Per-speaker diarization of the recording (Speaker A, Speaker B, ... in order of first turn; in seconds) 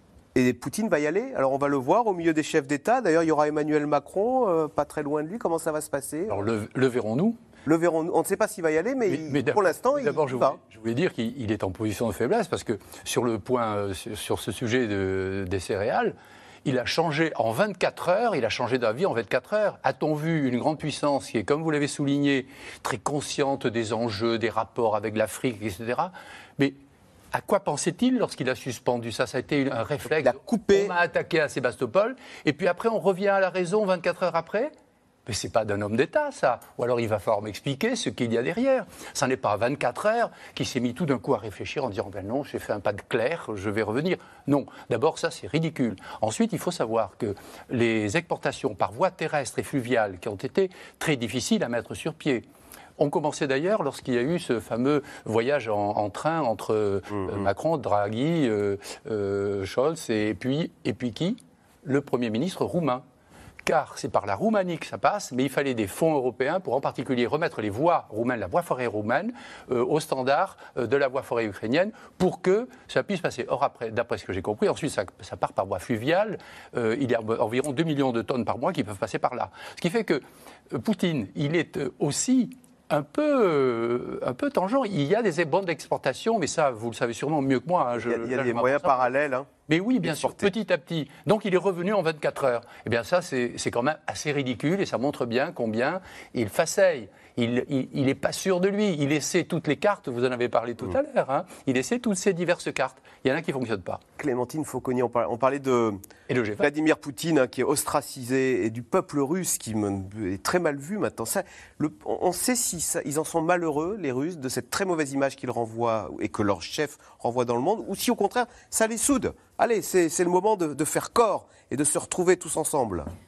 Speaker A: 0.3-6.5, 7.7-10.6, 30.1-30.9, 57.1-57.5, 88.0-89.5, 90.0-90.5, 104.2-106.0, 106.6-123.1
Speaker B: 6.3-7.4, 9.1-26.8, 27.3-34.7, 35.3-52.5, 53.0-63.0, 63.6-89.1, 89.7-104.0, 106.3-106.7